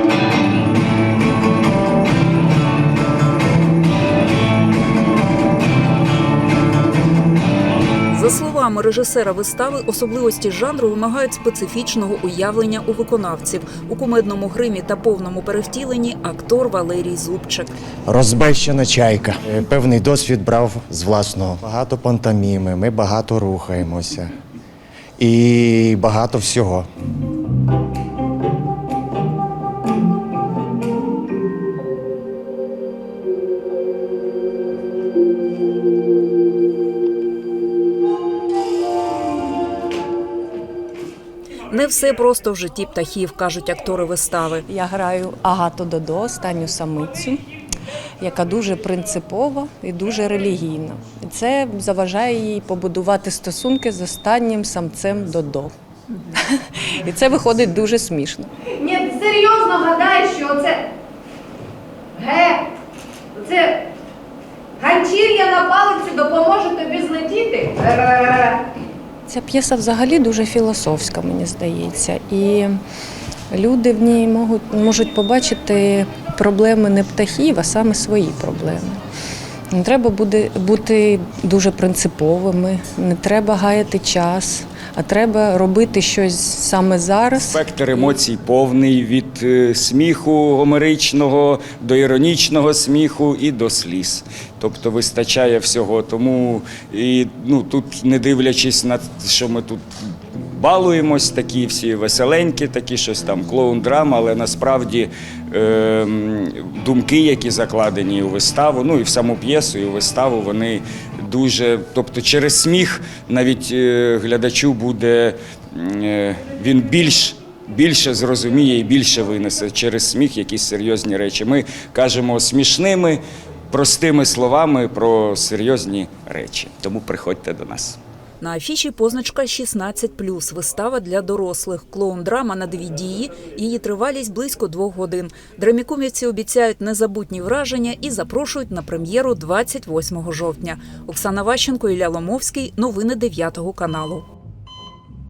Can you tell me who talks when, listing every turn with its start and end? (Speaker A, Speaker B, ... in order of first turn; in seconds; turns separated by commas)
Speaker A: 8.1-17.7, Speaker B: 18.1-24.3, Speaker B: 25.2-26.9, Speaker A: 41.7-44.6, Speaker C: 44.7-47.4, Speaker C: 48.2-55.7, Speaker C: 57.0-58.5, Speaker D: 58.8-60.8, Speaker D: 62.2-62.6, Speaker D: 63.4-63.8, Speaker D: 64.8-68.5, Speaker C: 69.3-72.7, Speaker C: 73.5-79.0, Speaker C: 79.7-87.2, Speaker E: 87.3-99.8, Speaker E: 100.5-128.0, Speaker A: 128.4-144.2